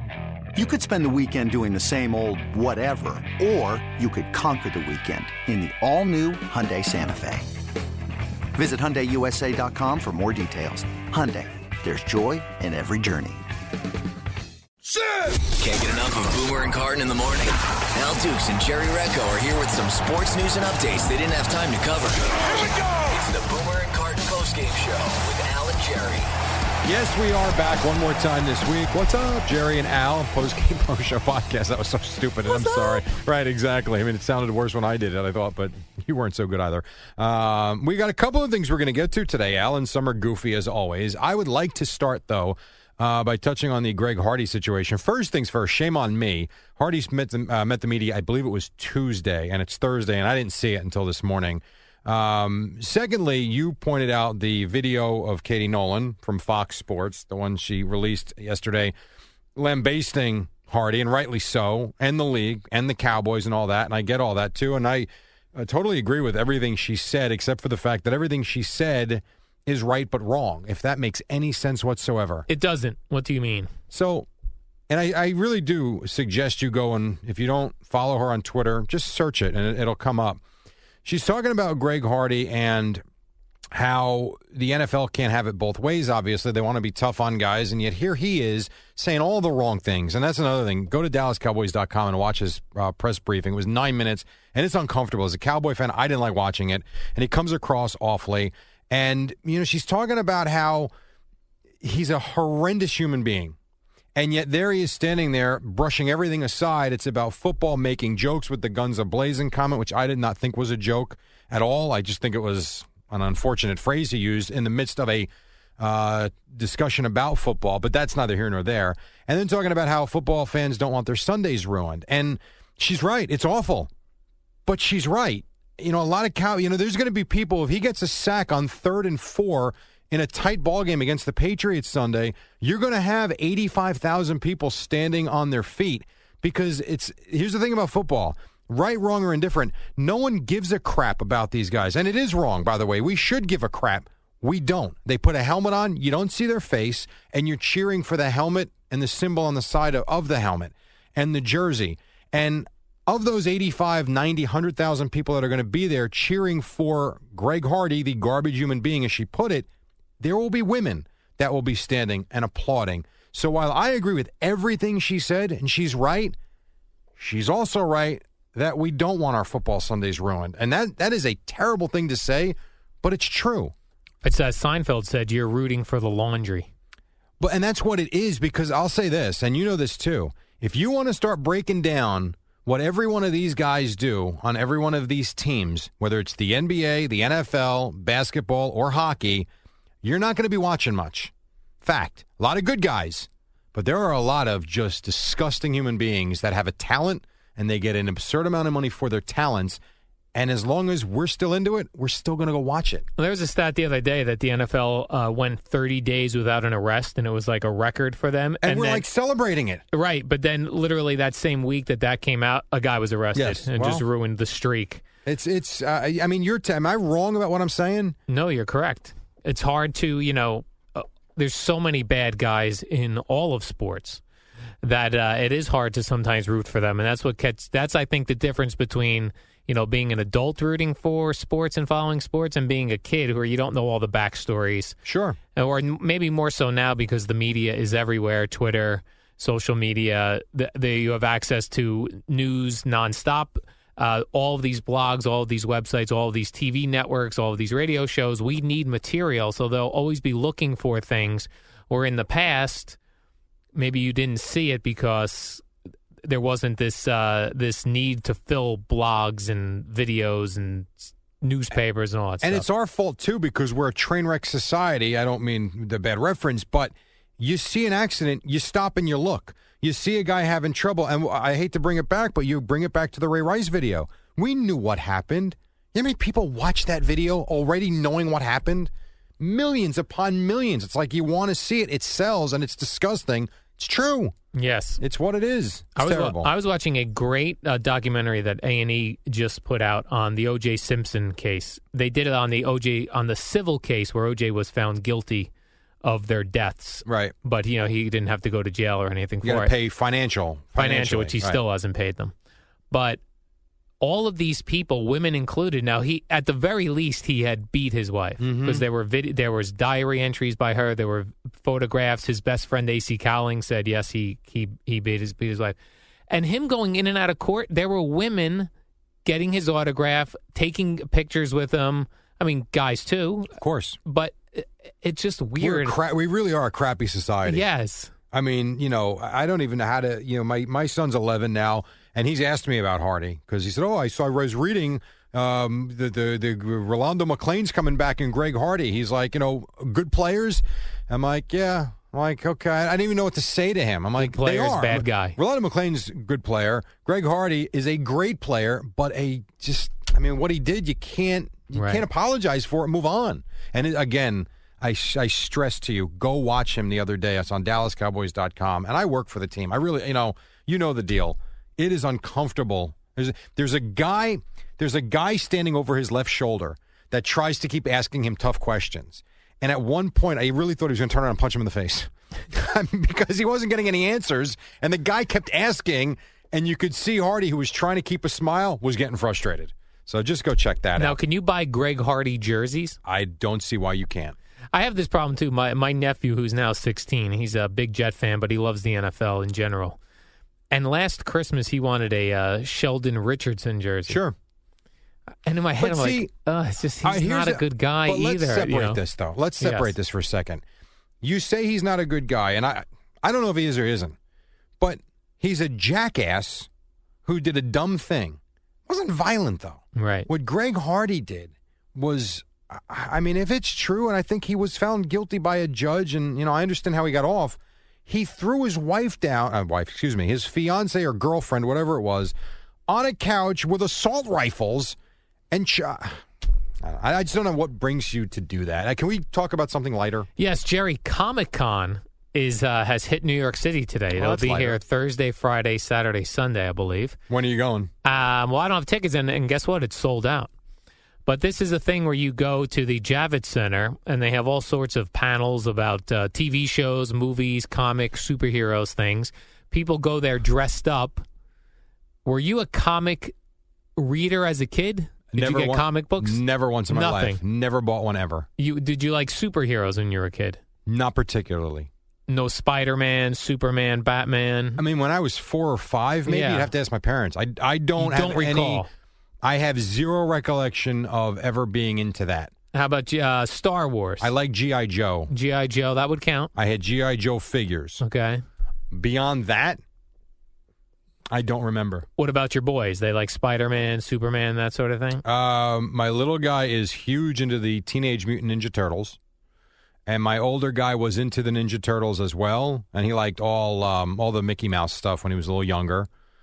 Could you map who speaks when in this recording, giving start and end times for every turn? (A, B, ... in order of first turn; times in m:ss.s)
0:00.5-0:07.5 A
0:08.5-0:13.5 A
0:15.4-0:26.3 B
0:26.8-0:58.9 C
0:59.6-1:12.4 C
1:12.5-1:13.7 D
1:13.9-1:14.3 C
1:14.9-1:20.4 C
1:21.0-1:23.0 C
1:23.7-1:40.9 C
1:41.8-1:43.6 C
1:44.2-2:03.9 C
2:04.6-2:39.7 C
2:40.2-2:46.4 C
2:47.2-2:53.7 C
2:54.2-2:56.7 D
2:57.4-3:09.5 C
3:10.0-3:19.8 C
3:20.3-3:23.0 C
3:23.2-3:29.0 D
3:28.6-3:29.8 C
3:29.9-3:35.0 D
3:33.4-3:34.0 C
3:35.2-3:38.2 C
3:38.3-3:44.2 D
3:44.8-3:55.0 D
3:55.0-3:55.4 C
3:55.5-4:13.0 D
4:13.7-4:15.6 D
4:16.2-4:22.7 D
4:22.4-4:44.3 C
4:44.5-4:45.0 D
4:45.0-4:46.5 C
4:46.0-4:55.5 D
4:56.0-4:59.7 D
4:57.0-4:57.3 C
4:59.4-5:01.6 C
5:00.8-5:02.3 D
5:02.9-5:03.2 D
5:04.0-5:15.8 D
5:08.4-5:08.8 C
5:16.3-5:18.7 D
5:19.2-5:23.5 D
5:23.5-5:24.0 C
5:24.0-5:26.0 D
5:25.6-5:27.6 C
5:27.4-5:28.1 D
5:28.3-6:21.2 C
5:44.2-5:45.4 D
5:51.7-5:52.0 D
6:21.0-6:23.0 D
6:23.0-6:24.4 C
6:24.7-6:30.0 D
6:30.7-6:34.2 D
6:34.1-6:34.3 C
6:35.4-6:39.0 D
6:35.8-6:36.3 C
6:37.0-6:40.6 C
6:39.6-6:39.9 D
6:41.2-6:44.2 C
6:44.8-6:46.7 C
6:47.2-7:02.3 C
6:49.9-6:50.3 D
7:02.9-7:05.0 C
7:05.5-7:06.2 C
7:06.8-7:10.3 C
7:10.4-7:17.2 D
7:14.1-7:14.8 C
7:17.3-7:17.9 C
7:18.0-7:20.5 D
7:21.2-7:31.2 D
7:32.2-7:33.3 D
7:34.0-7:37.4 D
7:35.3-7:38.5 C
7:38.6-7:40.6 D
7:40.8-7:41.9 C
7:42.3-7:44.8 D
7:44.8-7:48.9 C
7:46.2-7:46.7 D
7:48.0-7:48.9 D
7:49.4-7:52.5 C
7:52.7-7:54.3 D
7:54.2-7:55.3 C
7:55.3-7:56.5 D
7:56.5-7:58.0 C
7:58.0-7:58.4 D
7:58.9-7:59.8 C
8:01.3-8:02.1 C
8:02.2-8:05.2 D
8:05.2-8:09.2 C
8:10.0-8:16.1 C